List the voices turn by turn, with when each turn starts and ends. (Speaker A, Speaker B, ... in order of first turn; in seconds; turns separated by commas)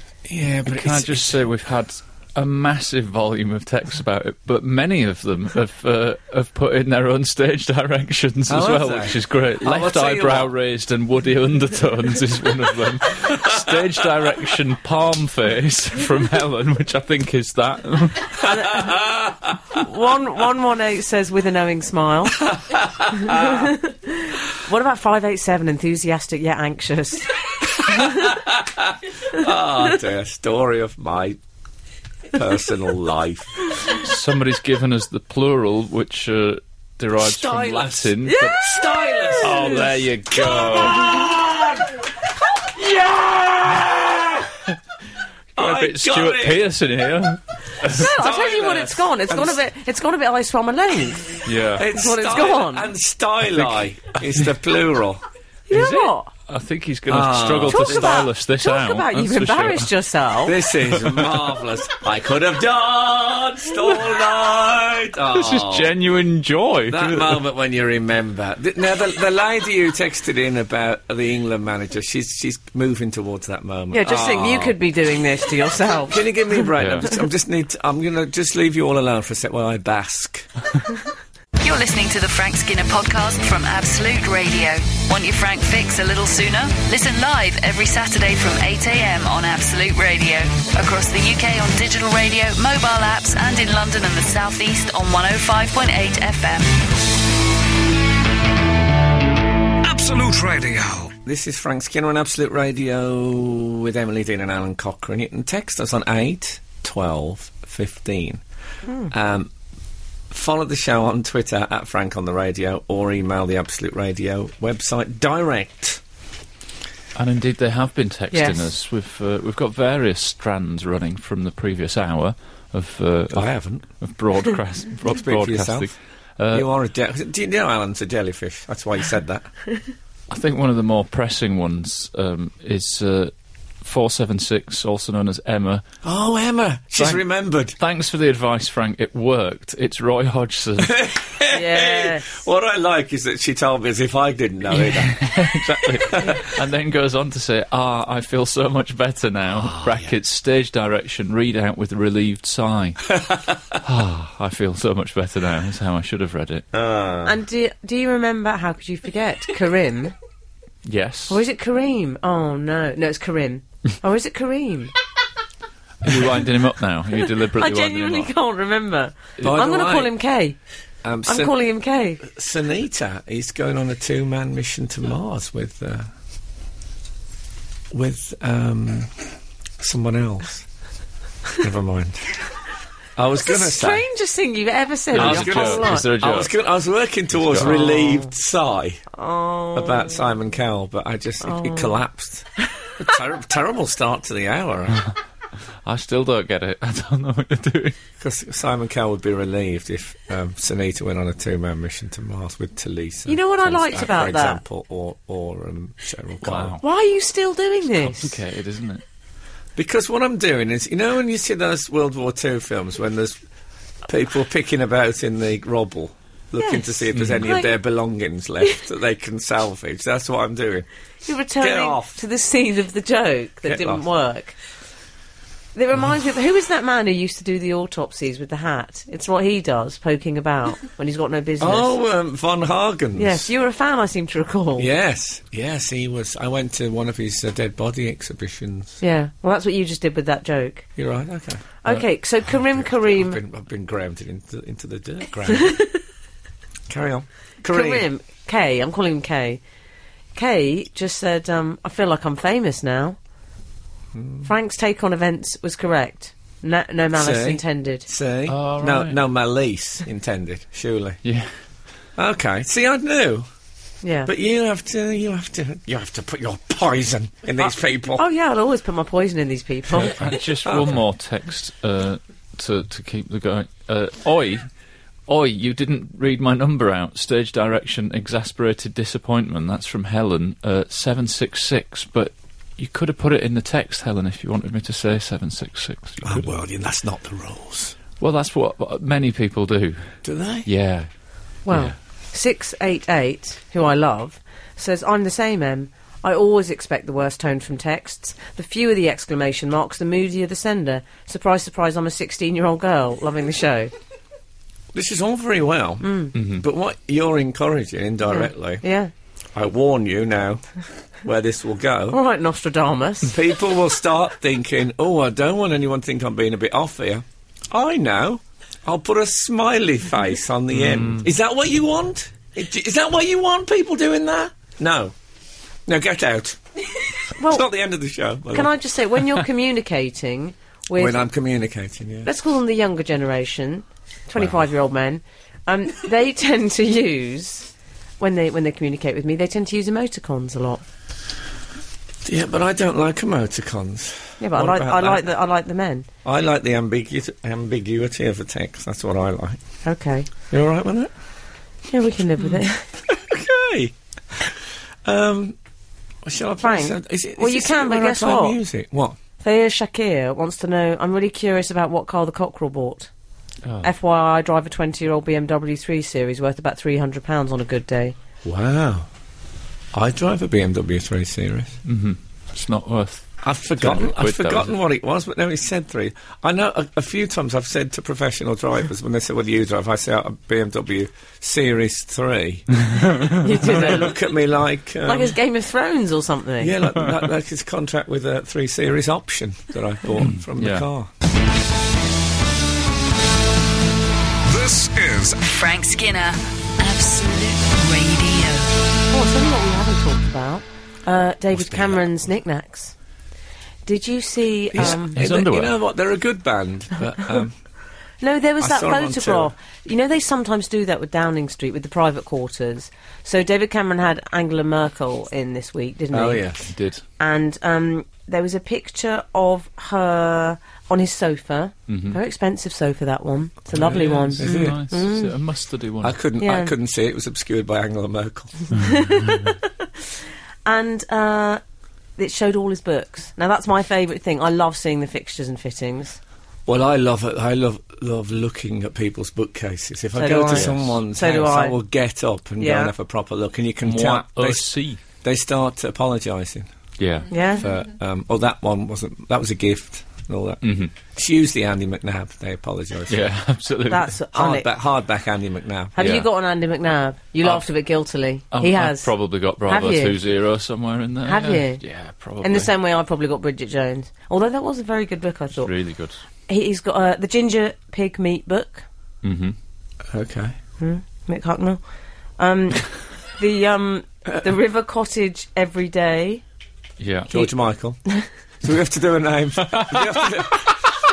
Speaker A: 0.3-1.3, Speaker B: 0.7-18.5, Speaker A: 8.5-10.5, Speaker C: 18.4-18.9, Speaker A: 18.8-19.5, Speaker C: 19.7-22.4, Speaker A: 22.6-23.7, Speaker C: 23.1-28.4, Speaker A: 28.0-31.4, Speaker A: 32.3-33.5, Speaker B: 33.9-38.6, Speaker A: 37.2-42.0, Speaker C: 38.2-39.9, Speaker B: 39.4-41.2, Speaker A: 42.7-44.7, Speaker A: 45.6-46.7, Speaker B: 45.6-48.1, Speaker C: 47.8-52.9, Speaker A: 47.9-49.6, Speaker B: 51.5-51.9, Speaker A: 51.8-55.2, Speaker B: 53.5-53.8, Speaker C: 55.7-56.3, Speaker B: 55.7-59.9, Speaker A: 57.1-58.2, Speaker C: 57.7-60.6, Speaker A: 60.5-65.9, Speaker B: 60.9-61.4, Speaker B: 65.3-67.4, Speaker A: 66.9-74.8, Speaker C: 73.9-76.7, Speaker A: 76.1-80.5, Speaker B: 76.8-77.1, Speaker D: 81.6-96.7, Speaker E: 99.8-101.2, Speaker A: 101.2-108.4, Speaker A: 109.1-109.5, Speaker A: 110.3-116.0, Speaker B: 117.2-126.7, Speaker C: 118.3-118.7, Speaker A: 123.3-123.9, Speaker A: 125.1-125.9, Speaker A: 126.5-129.5, Speaker B: 130.3-135.9, Speaker A: 136.0-137.8, Speaker B: 137.0-137.2, Speaker B: 137.8-141.0, Speaker A: 140.8-145.3, Speaker C: 141.5-142.4, Speaker B: 144.8-153.2, Speaker A: 146.0-146.4, Speaker A: 149.6-150.1, Speaker A: 153.3-153.5, Speaker B: 153.8-156.7, Speaker A: 156.8-157.3, Speaker C: 157.2-160.2, Speaker B: 160.8-161.4, Speaker C: 161.3-164.9, Speaker B: 166.0-168.3, Speaker C: 167.5-170.6, Speaker A: 169.4-170.1, Speaker A: 171.0-171.6, Speaker C: 171.3-172.2, Speaker A: 172.2-176.1, Speaker A: 177.9-180.7, Speaker A: 181.6-182.5, Speaker A: 183.2-184.1, Speaker C: 183.4-186.2, Speaker B: 185.1-186.5, Speaker A: 185.1-189.0, Speaker B: 187.3-187.8, Speaker C: 187.6-188.3, Speaker C: 189.1-190.2, Speaker A: 189.7-192.5, Speaker C: 191.4-192.0, Speaker A: 193.0-195.1, Speaker B: 195.8-198.0, Speaker A: 198.2-206.8, Speaker C: 203.3-204.6, Speaker B: 206.4-206.8, Speaker C: 206.8-208.4, Speaker B: 207.9-209.0, Speaker A: 209.8-213.4, Speaker A: 214.1-220.9, Speaker C: 216.6-217.7, Speaker B: 217.1-217.4, Speaker C: 221.2-224.6, Speaker A: 221.6-222.2, Speaker A: 223.7-224.0, Speaker C: 225.8-231.9, Speaker A: 231.6-233.5, Speaker C: 233.2-234.9, Speaker A: 234.8-239.0, Speaker C: 239.0-240.9, Speaker A: 241.0-241.8, Speaker C: 241.8-243.4, Speaker A: 242.5-245.8, Speaker C: 245.5-246.0, Speaker A: 246.9-248.1, Speaker C: 247.7-249.6, Speaker C: 250.3-253.2, Speaker A: 254.1-254.5, Speaker C: 254.4-258.1, Speaker A: 257.1-261.2, Speaker B: 258.5-259.2, Speaker B: 261.2-261.5, Speaker A: 262.2-263.5, Speaker C: 264.0-264.3, Speaker A: 264.3-268.2, Speaker C: 268.2-270.3, Speaker B: 270.0-274.7, Speaker A: 270.2-271.0, Speaker B: 275.3-286.5, Speaker A: 286.2-287.9, Speaker B: 288.2-291.1, Speaker A: 290.2-290.7, Speaker C: 291.7-303.9, Speaker B: 291.7-291.9, Speaker A: 304.9-308.8, Speaker C: 306.0-306.3, Speaker B: 306.4-306.6, Speaker C: 308.3-309.1, Speaker A: 309.6-310.6, Speaker A: 311.2-312.2, Speaker C: 312.1-313.4, Speaker A: 313.3-325.1, Speaker B: 320.7-321.3, Speaker A: 325.9-326.6, Speaker C: 327.4-327.6, Speaker A: 327.4-328.7, Speaker C: 328.5-331.3, Speaker A: 330.9-332.3, Speaker C: 332.2-337.7, Speaker C: 338.2-340.8, Speaker A: 342.2-345.3, Speaker C: 344.4-346.1, Speaker A: 346.2-349.6, Speaker C: 349.8-350.3, Speaker A: 350.5-351.1, Speaker C: 351.9-352.9, Speaker A: 353.1-355.6, Speaker A: 356.2-359.2, Speaker C: 356.6-358.6, Speaker C: 359.4-363.1, Speaker C: 363.8-368.1, Speaker A: 368.4-369.1, Speaker A: 369.9-371.8, Speaker B: 371.9-374.7, Speaker A: 373.4-382.8, Speaker B: 382.9-383.3, Speaker C: 383.4-384.3, Speaker A: 383.6-385.4, Speaker C: 385.0-386.8, Speaker A: 386.6-391.1, Speaker B: 390.2-390.9, Speaker E: 394.5-395.4, Speaker D: 395.4-398.7, Speaker C: 399.1-402.9, Speaker A: 401.5-402.0, Speaker C: 403.9-405.2, Speaker A: 404.7-407.6, Speaker B: 404.8-405.8, Speaker C: 408.2-416.5, Speaker A: 408.6-409.5, Speaker A: 416.1-416.7, Speaker B: 416.7-417.0, Speaker C: 417.2-425.3, Speaker B: 421.9-422.2, Speaker B: 423.7-426.2, Speaker A: 424.4-424.8, Speaker A: 426.0-428.7, Speaker C: 426.4-426.7, Speaker B: 428.7-429.5, Speaker C: 428.8-429.9, Speaker C: 430.6-431.6, Speaker C: 432.2-436.2, Speaker A: 436.7-444.7, Speaker C: 440.1-441.8, Speaker B: 440.5-440.9, Speaker C: 442.6-442.9, Speaker B: 443.8-445.0, Speaker A: 445.2-446.7, Speaker B: 447.0-447.3, Speaker C: 447.3-447.7, Speaker A: 447.6-453.2, Speaker B: 450.6-450.9, Speaker B: 453.1-454.2, Speaker C: 453.9-454.7, Speaker A: 454.3-455.9, Speaker C: 456.0-459.1, Speaker B: 456.0-456.3, Speaker B: 458.5-462.7, Speaker C: 459.7-460.2, Speaker C: 461.2-461.8, Speaker C: 462.4-465.7, Speaker B: 465.6-466.2, Speaker C: 466.5-468.9, Speaker B: 469.2-469.6, Speaker A: 470.1-470.6, Speaker C: 470.8-471.8, Speaker C: 472.4-476.4, Speaker B: 477.0-477.4, Speaker A: 477.3-478.0, Speaker A: 478.6-480.8, Speaker B: 479.7-480.2